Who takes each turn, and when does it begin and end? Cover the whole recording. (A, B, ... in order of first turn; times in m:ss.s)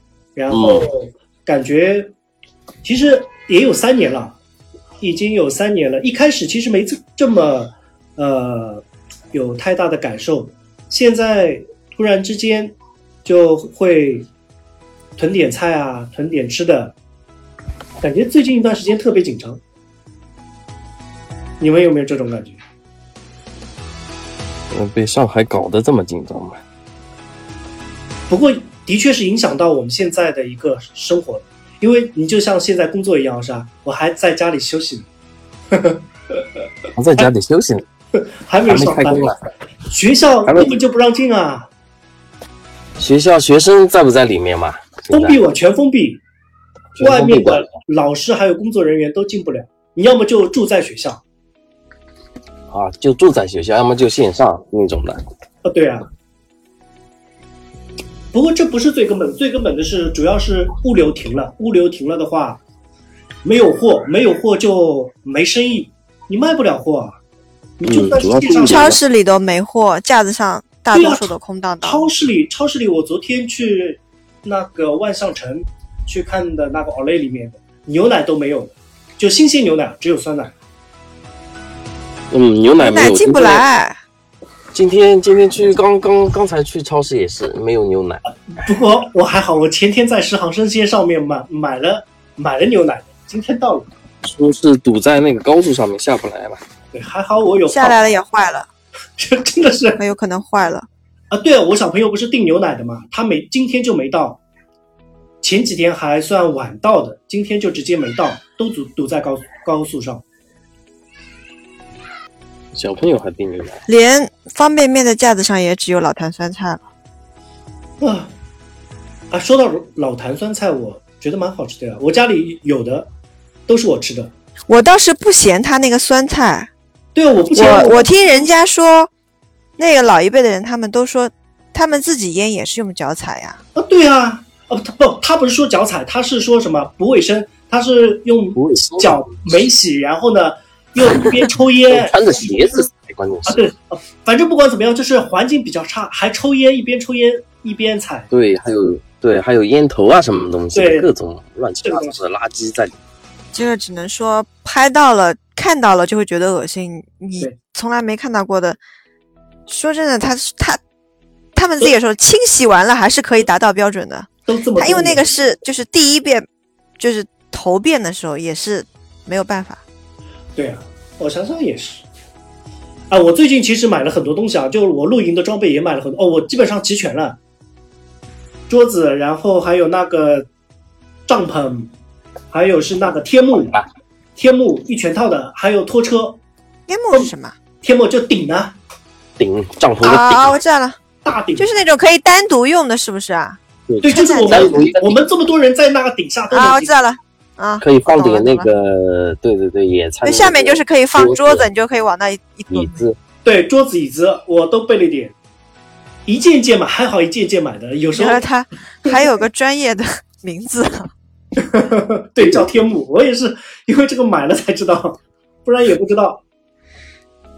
0:00.4-0:02.1 A
0:00.5-0:00.9 B
0:02.8-0:04.4 A
0:05.0-0:14.3 A
0:15.2-0:16.9 A
0:18.0-0:19.6 A
0:21.6-0:22.6 A
0:24.7-0:26.6 B
0:28.3-0:35.1 A
0:35.7-0:36.6 A
0:36.9-0:37.8 B
0:38.1-0:39.3 A
0:38.6-0:39.4 B
0:39.9-0:41.7 A
0:40.4-0:40.8 B
0:43.0-0:45.4 B
0:45.1-0:46.2 A
0:47.0-0:47.7 B
0:47.0-0:51.2 A
0:52.7-0:55.2 B
0:55.6-0:56.1 A
0:58.3-1:02.6 A
1:03.4-1:07.2 A
1:07.8-1:09.0 A
1:07.8-1:09.0 B
1:08.6-1:12.1 C
1:10.9-1:11.3 A
1:11.8-1:20.5 A
1:22.3-1:23.6 B
1:22.8-1:24.0 C
1:24.7-1:28.2 B
1:28.6-1:33.9 A
1:34.2-1:36.6 B
1:36.9-1:38.0 A
1:37.7-1:38.7 C
1:39.2-1:40.0 A
1:40.0-1:40.9 C
1:41.3-1:44.4 A
1:45.4-1:50.2 A
1:52.7-1:53.8 B
1:53.9-1:56.8 C
1:58.0-1:58.3 A
1:59.3-2:03.1 A
2:03.7-2:04.3 A
2:04.7-2:06.7 C
2:07.1-2:08.1 A
2:07.5-2:09.1 C
2:09.8-2:13.6 C
2:13.7-2:22.8 A
2:18.6-2:19.6 B
2:21.9-2:23.7 B
2:23.4-2:28.3 A
2:28.3-2:32.9 B
2:30.7-2:31.1 A
2:31.8-2:32.1 A
2:33.5-2:38.8 C
2:39.7-2:40.8 C
2:41.5-2:46.4 C
2:44.5-2:45.2 A
2:47.0-2:49.8 C
2:50.6-2:52.0 A
2:53.1-2:57.4 A
2:58.7-3:00.5 A
3:01.3-3:01.9 A
3:02.5-3:03.8 A
3:04.4-3:06.4 A
3:06.9-3:07.6 C
3:07.8-3:08.7 A
3:09.4-3:10.6 B
3:10.0-3:11.0 C
3:11.2-3:11.7 A
3:11.6-3:14.8 C
3:13.9-3:15.2 B
3:14.0-3:16.9 A
3:16.5-3:18.7 C
3:17.8-3:21.7 B
3:20.2-3:23.0 C
3:22.7-3:23.2 B
3:23.4-3:25.3 A
3:26.2-3:28.4 A
3:28.1-3:31.1 C
3:29.0-3:29.4 A
3:31.6-3:36.4 A